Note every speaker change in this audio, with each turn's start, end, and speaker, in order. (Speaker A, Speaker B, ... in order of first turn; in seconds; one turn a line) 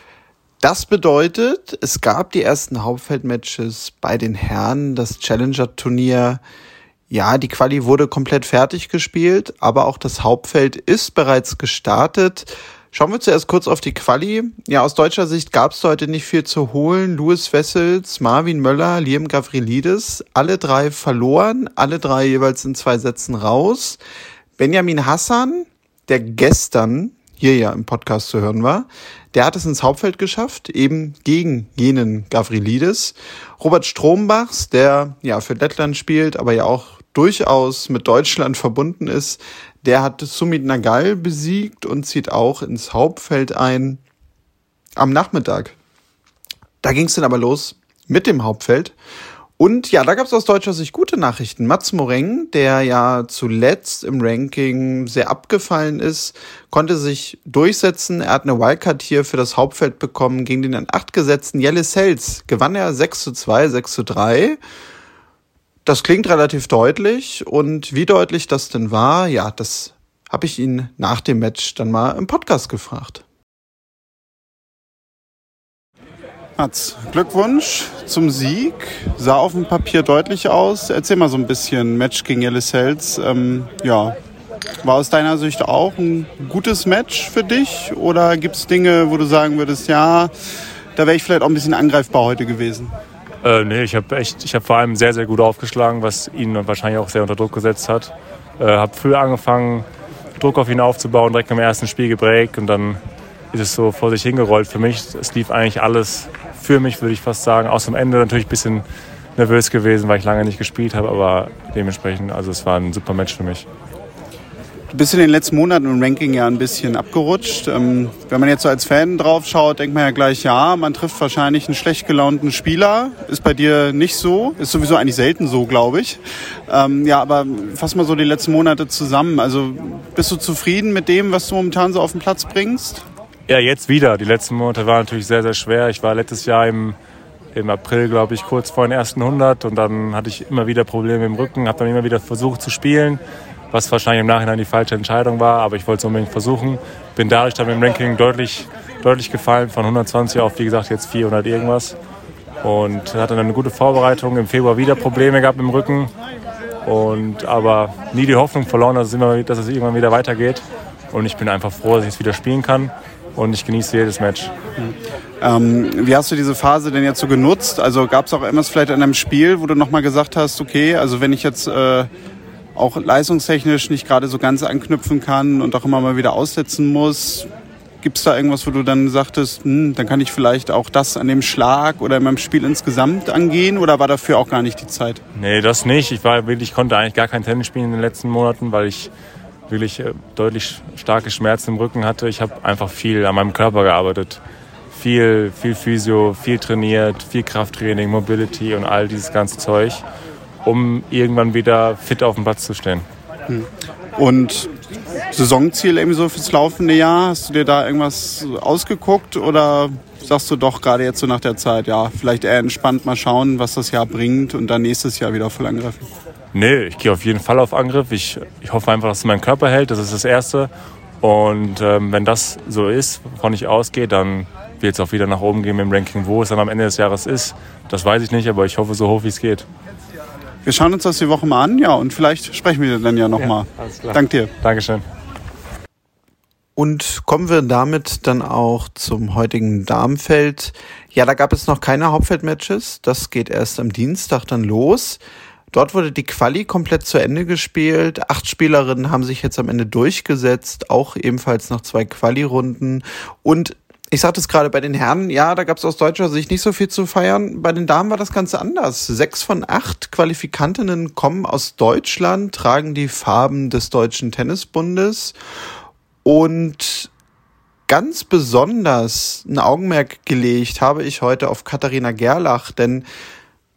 Speaker A: 0.6-6.4
Speaker A: 7.1-24.0
Speaker A: 24.6-44.0
Speaker A: 45.0-45.8
Speaker A: 46.8-49.0
Speaker A: 49.6-64.6
Speaker A: 65.8-73.2
Speaker A: 76.6-84.1
Speaker A: 84.8-90.3
Speaker A: 91.0-92.9
Speaker B: 93.4-99.9
Speaker B: 100.4-103.0
Speaker B: 103.5-108.8
Speaker B: 109.4-113.7
Speaker A: 114.9-126.2
Speaker A: 126.7-133.0
Speaker B: 133.5-137.0
Speaker B: 137.5-152.0
Speaker B: 152.6-156.1
Speaker B: 156.8-164.5
Speaker A: 165.4-172.1
Speaker A: 172.8-177.5
Speaker A: 178.0-185.2
Speaker B: 185.3-189.1
Speaker B: 189.7-194.4
Speaker B: 194.9-200.0
Speaker B: 200.6-203.1
Speaker A: 204.2-204.7
Speaker A: 205.3-216.1
Speaker B: 216.5-229.7
Speaker A: 230.7-234.5
Speaker B: 233.3-235.1
Speaker A: 236.8-245.2
Speaker A: 245.7-265.4
Speaker A: 266.2-267.1
Speaker A: 267.9-273.1